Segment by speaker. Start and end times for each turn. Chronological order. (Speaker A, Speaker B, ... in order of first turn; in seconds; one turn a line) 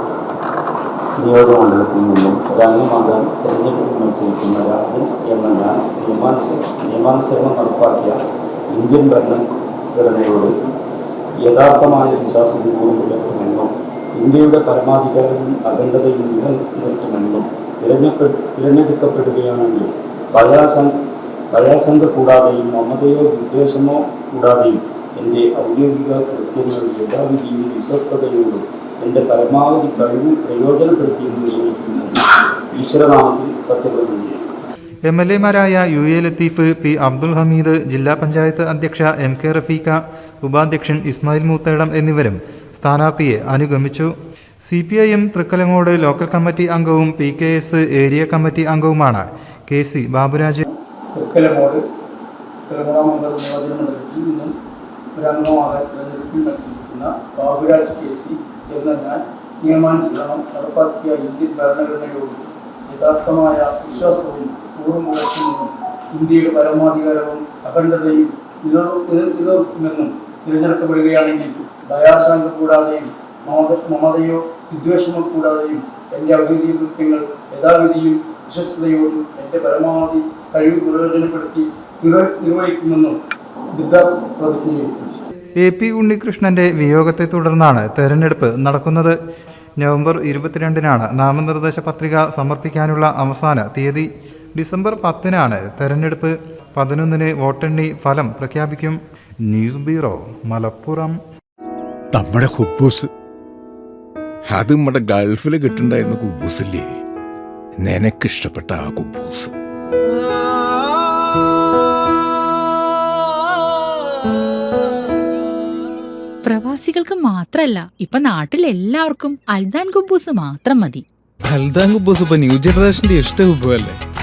Speaker A: 1.2-8.2
Speaker A: 8.7-10.5
Speaker A: 11.4-20.9
Speaker A: 21.5-32.2
Speaker A: 32.7-34.4
Speaker B: 35.1-44.1
Speaker B: 44.7-50.7
Speaker C: 51.1-51.8
Speaker C: 52.7-54.6
Speaker C: 55.2-83.2
Speaker C: 83.7-85.2
Speaker B: 85.6-89.2
Speaker B: 89.8-101.2
Speaker D: 102.1-103.1
Speaker D: 104.5-106.9
Speaker D: 107.8-109.5
Speaker E: 116.4-121.0
Speaker F: 121.4-124.0